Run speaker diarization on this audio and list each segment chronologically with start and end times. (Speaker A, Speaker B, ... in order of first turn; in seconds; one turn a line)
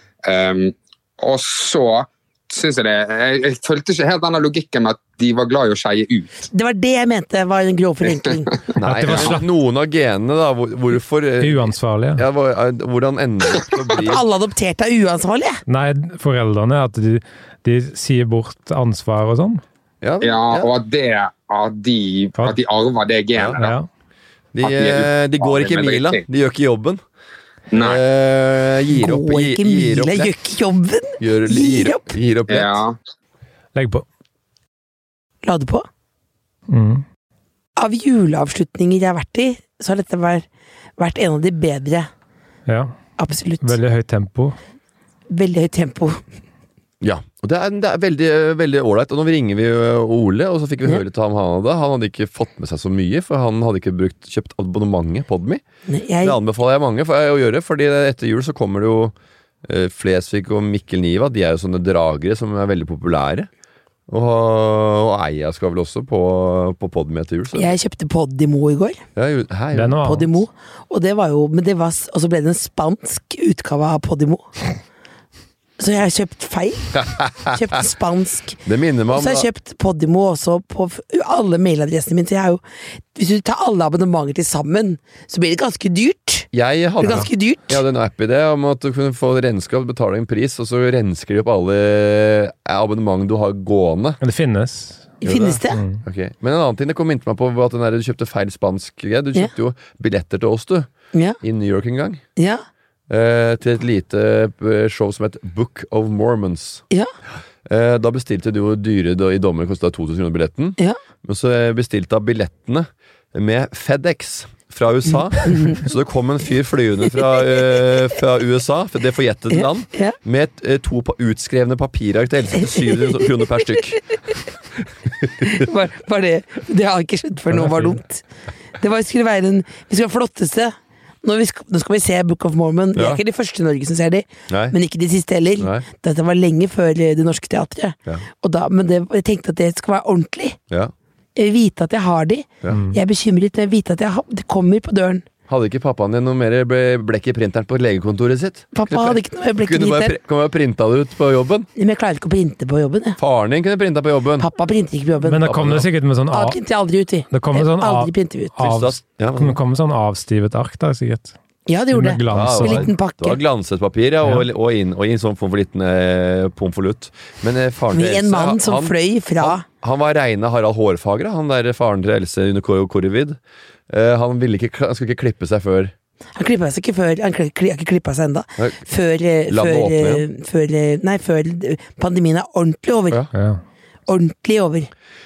Speaker A: 0.2-6.5
Speaker B: 6.5-8.5
Speaker C: 8.8-14.2
Speaker D: 8.8-9.4
Speaker D: 11.4-12.2
Speaker B: 14.0-15.6
Speaker D: 15.7-19.6
Speaker C: 20.0-20.7
Speaker A: 20.2-23.7
Speaker D: 23.5-23.9
Speaker C: 24.5-27.0
Speaker A: 24.6-26.2
Speaker A: 27.7-28.0
Speaker C: 27.7-30.3
Speaker B: 28.9-32.1
Speaker C: 31.2-32.8
Speaker A: 32.5-33.0
Speaker D: 33.7-34.0
Speaker B: 35.4-35.8
Speaker D: 36.7-37.0
Speaker B: 37.8-40.4
Speaker B: 41.0-42.1
Speaker D: 42.7-42.9
Speaker B: 43.2-43.8
Speaker D: 43.6-44.5
Speaker B: 45.3-46.2
Speaker C: 47.0-55.6
Speaker B: 55.9-56.4
Speaker C: 56.2-63.5
Speaker C: 64.1-67.7
Speaker B: 67.5-69.0
Speaker C: 69.2-70.0
Speaker D: 69.7-70.3
Speaker B: 70.0-74.5
Speaker B: 75.8-82.6
Speaker C: 76.9-77.5
Speaker C: 78.6-79.5
Speaker B: 83.1-86.5
Speaker C: 86.5-94.2
Speaker B: 87.0-87.8
Speaker D: 94.2-95.2
Speaker B: 95.2-95.8
Speaker C: 95.2-100.9
Speaker D: 95.7-96.0
Speaker C: 101.4-102.2
Speaker B: 102.4-102.6
Speaker C: 103.1-106.8
Speaker C: 107.7-124.0
Speaker B: 119.5-120.2
Speaker B: 125.4-128.2
Speaker B: 128.8-140.6
Speaker C: 132.9-133.2
Speaker C: 134.5-134.7
Speaker C: 135.6-135.8
Speaker B: 141.3-145.2
Speaker D: 142.7-143.0
Speaker C: 145.5-151.7
Speaker B: 148.7-150.2
Speaker B: 151.8-153.2
Speaker C: 153.2-154.5
Speaker B: 154.4-155.4
Speaker D: 155.2-156.6
Speaker C: 155.4-155.9
Speaker B: 156.3-158.5
Speaker D: 157.3-161.3
Speaker C: 158.6-159.6
Speaker B: 161.7-163.4
Speaker D: 161.9-162.9
Speaker C: 162.3-175.9
Speaker B: 167.9-169.6
Speaker B: 176.3-183.2
Speaker C: 179.5-180.2
Speaker D: 183.3-183.6
Speaker B: 184.1-184.9